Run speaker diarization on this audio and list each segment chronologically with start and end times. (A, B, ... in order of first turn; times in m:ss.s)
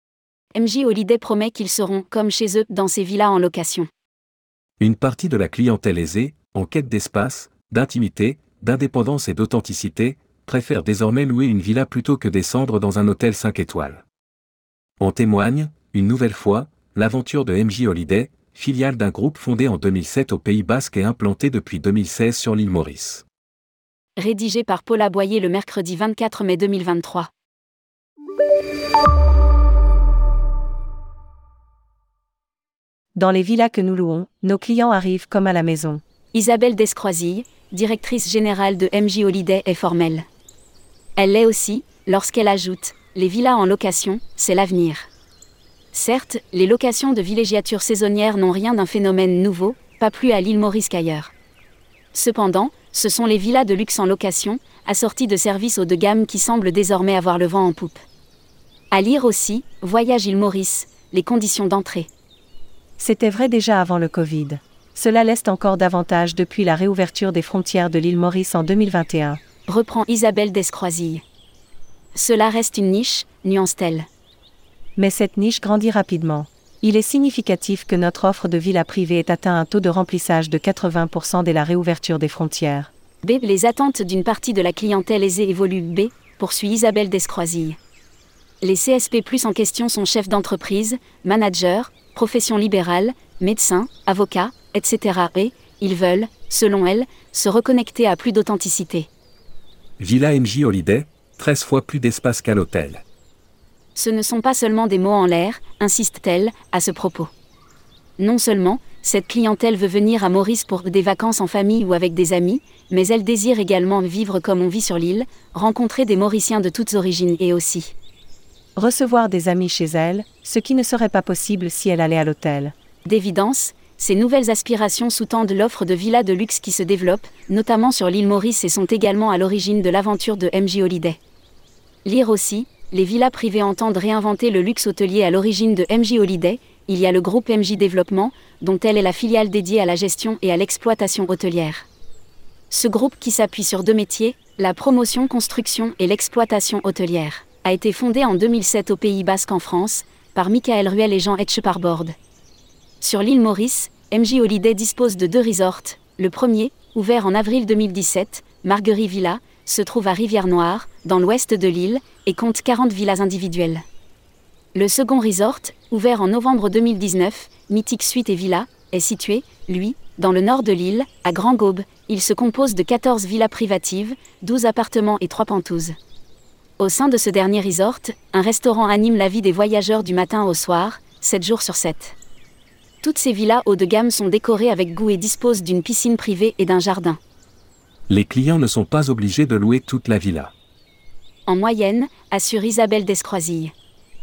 0:00.5-0:03.9 A
0:04.8-0:14.0 B
0:15.0-0:23.2 B
0:24.2-0:27.3 A
0:33.1-0:36.0 C
0:36.3-0:40.2 A
0:41.2-0:45.1 A
0:45.9-0:51.3 A
0:52.1-0:58.0 A
0:58.9-1:02.1 A
1:03.0-1:09.4 C
1:09.7-1:11.2 A
1:12.1-1:14.1 A
1:15.0-1:22.9 C
1:23.2-1:27.8 A
1:28.6-1:39.1 A
1:40.0-1:43.0 B
1:44.0-1:47.3 A
1:48.2-1:57.9 A
1:58.8-2:02.7 C
2:03.0-2:11.2 A
2:12.0-2:21.9 A
2:22.7-2:32.1 A
2:33.0-2:43.8 A
2:44.7-2:55.9 A
2:56.8-3:02.2 A
3:03.0-3:07.2 A
3:08.1-3:10.5 B
3:11.5-3:13.7 A